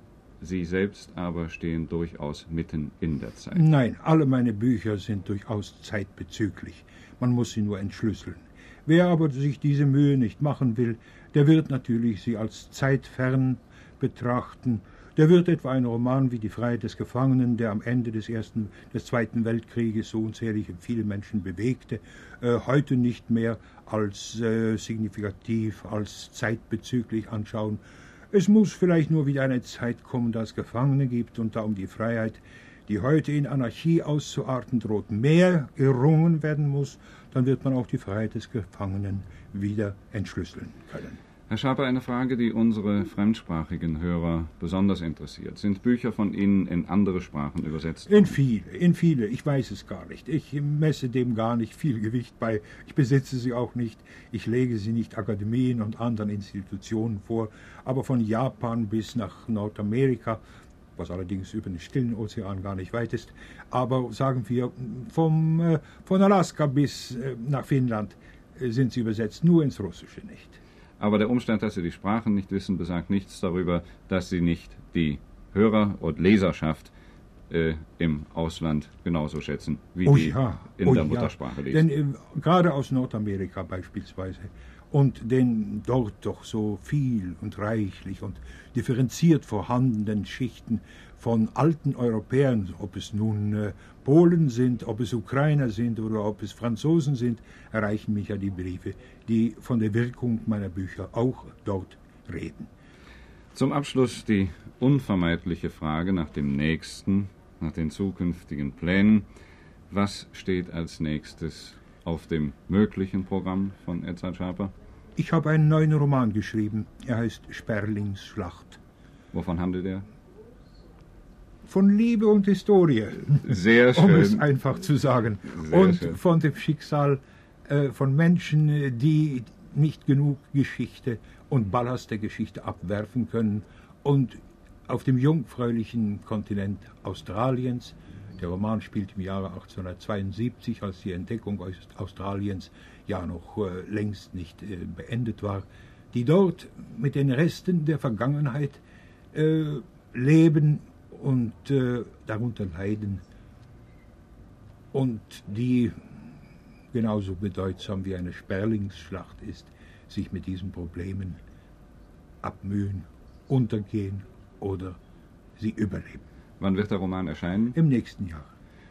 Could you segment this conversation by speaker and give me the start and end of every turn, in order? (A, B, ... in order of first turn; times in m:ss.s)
0:00.4-0:03.7 A
0:03.5-0:41.2 B
0:41.5-0:48.4 A
0:48.1-1:00.4 B
1:01.0-1:10.6 B
1:11.0-1:16.9 A
1:17.5-1:21.8 A
1:20.0-1:42.7 B
1:43.5-1:49.3 A
1:49.9-1:54.7 A
1:55.2-1:58.8 B
1:59.3-2:00.0 A
2:01.7-2:28.8 B
2:03.4-2:04.4 A
2:05.5-2:06.2 A
2:29.3-2:33.2 B
2:34.9-2:36.1 B
2:36.9-2:41.4 B
2:42.4-2:45.0 B
2:45.6-2:46.2 B
2:46.6-2:47.8 A
2:47.8-2:48.5 B